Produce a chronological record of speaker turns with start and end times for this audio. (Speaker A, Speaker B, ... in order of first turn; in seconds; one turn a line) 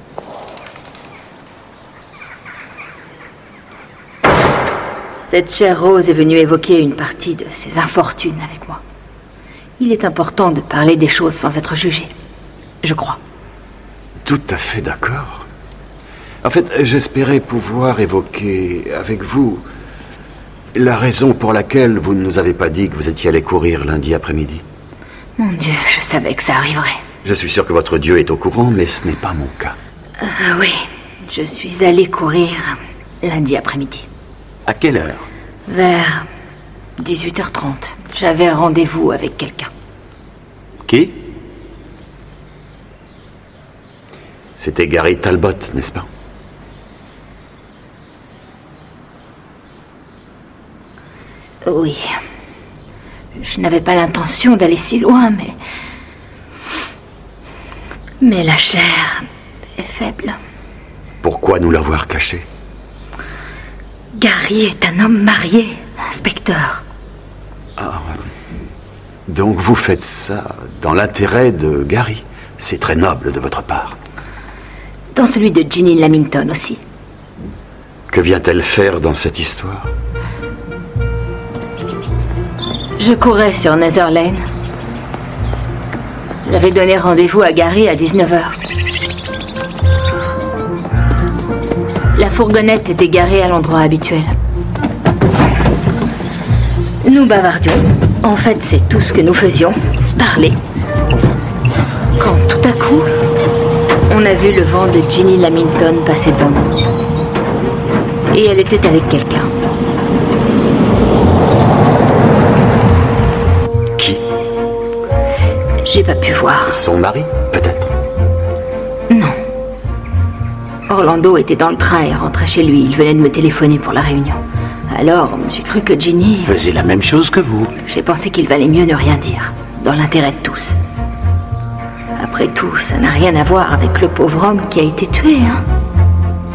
Speaker A: 5.3-8.8
Speaker A: 9.8-12.1
Speaker A: 12.8-13.2
Speaker B: 14.2-15.5
Speaker B: 16.4-19.6
Speaker B: 20.7-24.6
Speaker A: 25.4-27.0
Speaker B: 27.2-29.8
Speaker A: 30.2-34.1
Speaker C: 34.7-35.2
Speaker A: 35.7-36.3
Speaker A: 37.0-39.7
Speaker C: 40.9-41.1
Speaker B: 44.6-46.1
Speaker A: 51.6-52.2
Speaker A: 53.4-55.6
Speaker A: 58.2-59.3
Speaker A: 59.8-60.4
Speaker B: 61.2-62.5
Speaker A: 64.1-66.8
Speaker B: 67.8-68.2
Speaker B: 69.3-74.0
Speaker A: 75.1-76.8
Speaker B: 78.1-79.9
Speaker A: 83.0-84.4
Speaker A: 86.5-88.6
Speaker A: 92.2-94.3
Speaker A: 97.0-100.6
Speaker A: 102.2-103.1
Speaker A: 104.1-106.8
Speaker A: 108.3-109.7
Speaker B: 114.0-114.2
Speaker A: 115.8-116.8
Speaker B: 116.7-117.9
Speaker A: 119.1-119.4
Speaker A: 120.9-126.5
Speaker C: 126.4-127.7
Speaker A: 127.8-130.8
Speaker A: 132.2-135.6